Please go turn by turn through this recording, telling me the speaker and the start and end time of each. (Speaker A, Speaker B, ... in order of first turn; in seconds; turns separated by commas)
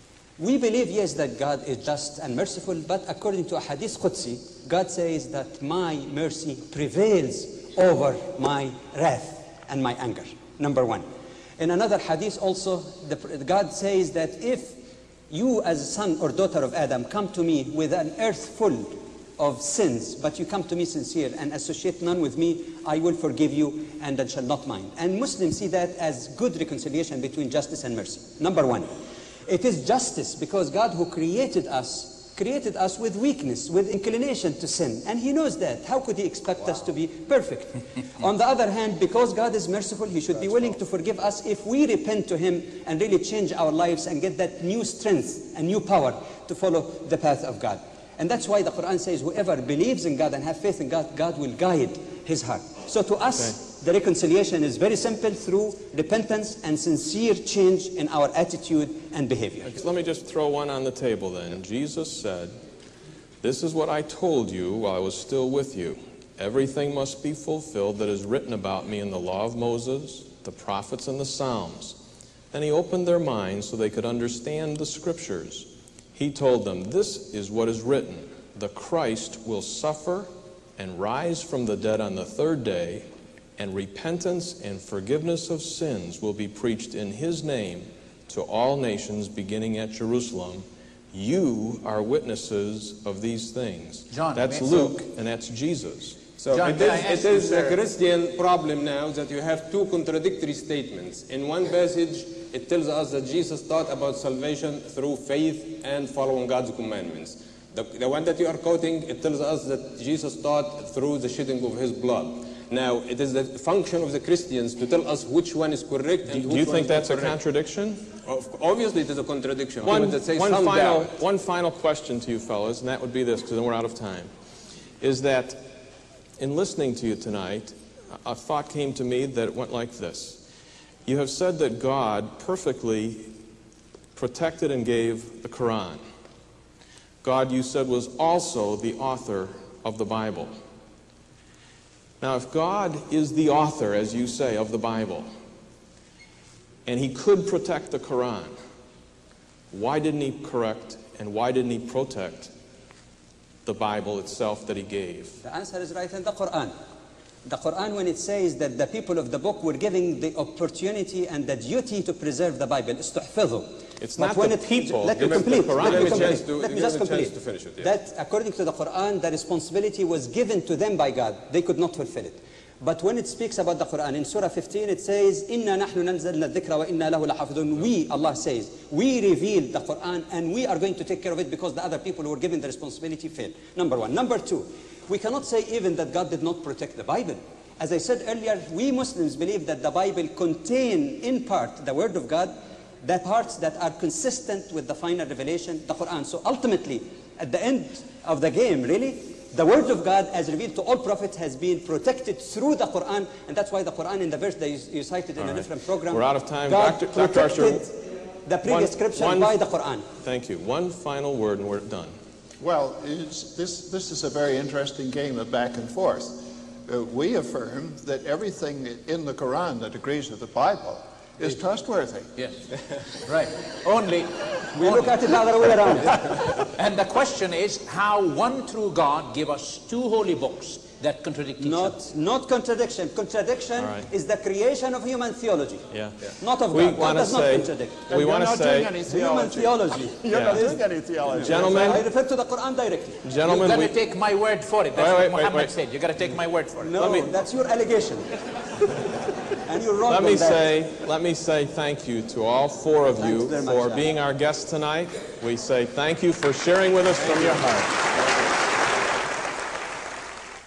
Speaker A: 0.4-14.8, Speaker A: 15.3-28.9, Speaker A: 29.5-59.7, Speaker B: 59.6-62.5, Speaker B: 63.4-72.0, Speaker B: 72.5-96.3, Speaker C: 94.1-95.0, Speaker D: 96.4-117.4, Speaker C: 96.5-97.8, Speaker B: 116.3-118.1, Speaker D: 118.2-121.2, Speaker B: 119.8-124.3, Speaker B: 125.0-125.8, Speaker B: 126.4-130.4, Speaker B: 131.1-133.3, Speaker B: 134.2-136.0, Speaker B: 137.2-140.6, Speaker B: 142.2-145.3, Speaker B: 146.9-148.6, Speaker B: 149.7-152.5, Speaker B: 153.7-155.4, Speaker A: 155.4-156.8, Speaker A: 157.5-210.1, Speaker B: 164.0-166.4, Speaker D: 165.1-167.9, Speaker B: 205.4-207.9, Speaker B: 208.6-212.2, Speaker E: 212.6-222.3, Speaker C: 223.2-225.2, Speaker A: 224.7-226.2, Speaker C: 226.0-232.0, Speaker A: 231.6-238.2, Speaker B: 233.8-234.1, Speaker B: 235.9-238.9, Speaker E: 238.1-241.9, Speaker A: 238.9-243.2, Speaker B: 240.3-240.7, Speaker B: 241.3-242.1, Speaker B: 243.2-244.0, Speaker C: 243.4-246.9, Speaker B: 244.9-245.7, Speaker A: 246.8-248.3, Speaker B: 247.0-247.4, Speaker A: 249.7-250.7, Speaker B: 250.1-258.0, Speaker A: 253.1-254.1